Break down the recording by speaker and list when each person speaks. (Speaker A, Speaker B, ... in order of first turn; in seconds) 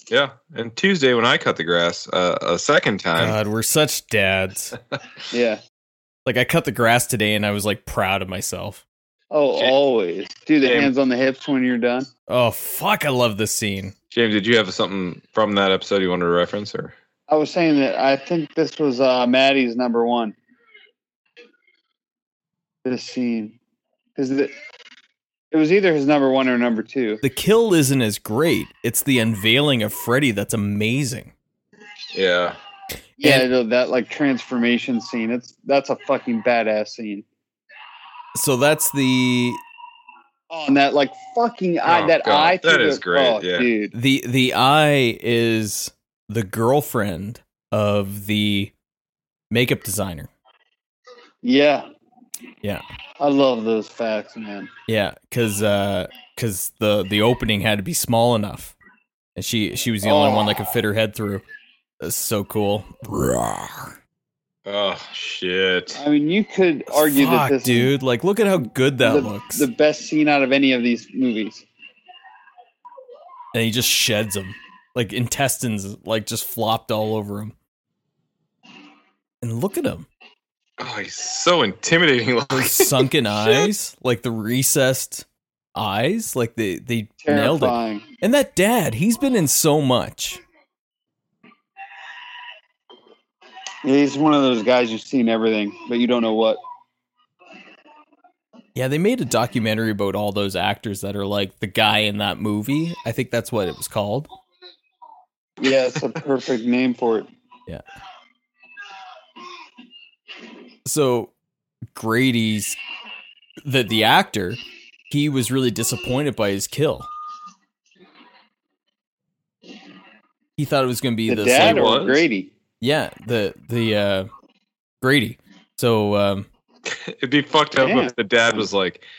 Speaker A: 0.1-3.4, 10.6-10.9, 14.1-16.9, 32.1-32.6, 41.8-43.7, 64.7-66.0, 80.8-83.7, 121.6-122.2, 126.9-129.0
Speaker B: 3.2-4.8, 6.3-8.8, 12.3-13.9, 27.2-31.3, 38.4-39.6, 43.9-48.7, 49.5-50.3, 54.9-58.8, 59.4-61.5, 62.0-64.0, 66.9-69.7, 73.5-77.5, 79.4-80.1, 82.5-90.4, 98.8-104.3, 110.9-111.3, 111.9-112.8, 113.6-117.1, 120.6-122.2, 122.8-124.3, 125.0-126.5
Speaker C: 5.3-5.6, 9.3-12.1, 17.3-20.4, 22.9-23.6, 24.2-24.5, 25.5-27.2, 33.2-37.2, 40.5-43.9, 51.4-51.9, 53.2-54.7, 60.0-60.6, 66.0-67.9, 69.0-71.7, 87.2-88.0, 93.8-96.6, 105.6-107.3, 121.3-122.5, 127.8-128.7